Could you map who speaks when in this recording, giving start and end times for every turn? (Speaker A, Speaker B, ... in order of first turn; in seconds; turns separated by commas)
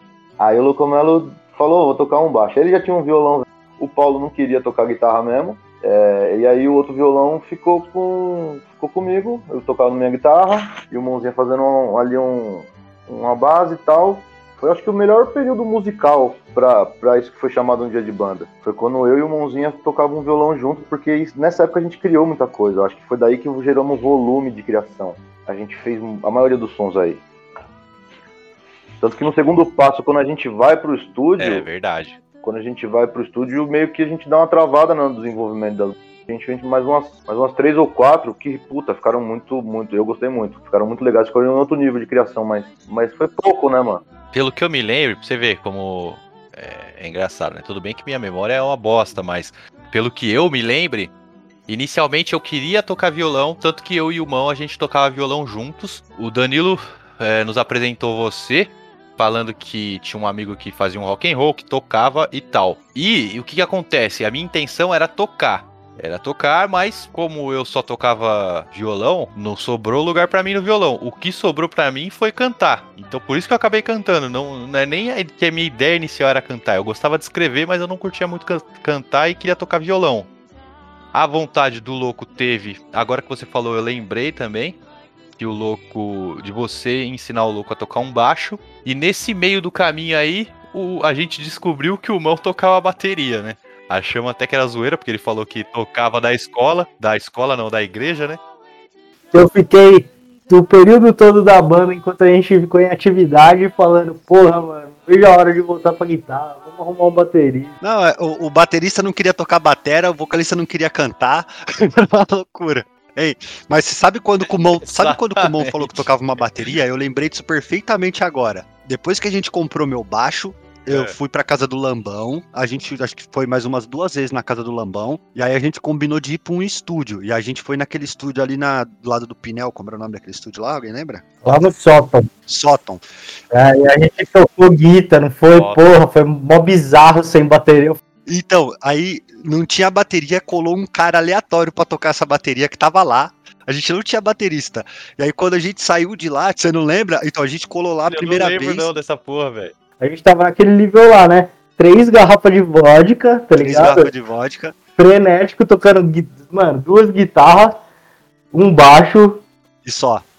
Speaker A: 0.4-27.2, Speaker A: 29.0-31.7, Speaker B: 31.4-32.2, Speaker A: 32.4-44.0, Speaker B: 44.3-51.1, Speaker B: 51.7-80.3, Speaker B: 81.1-84.8, Speaker B: 85.4-98.4, Speaker C: 99.3-107.7, Speaker D: 107.8-131.2, Speaker B: 114.4-116.1, Speaker B: 120.9-121.2, Speaker C: 131.4-132.3, Speaker D: 132.5-133.0, Speaker C: 133.5-138.0, Speaker B: 135.5-135.8, Speaker D: 138.3-148.9, Speaker B: 148.1-149.7, Speaker C: 150.0-154.1, Speaker D: 153.6-154.8, Speaker C: 155.0-157.8, Speaker C: 158.5-159.4, Speaker D: 159.8-160.2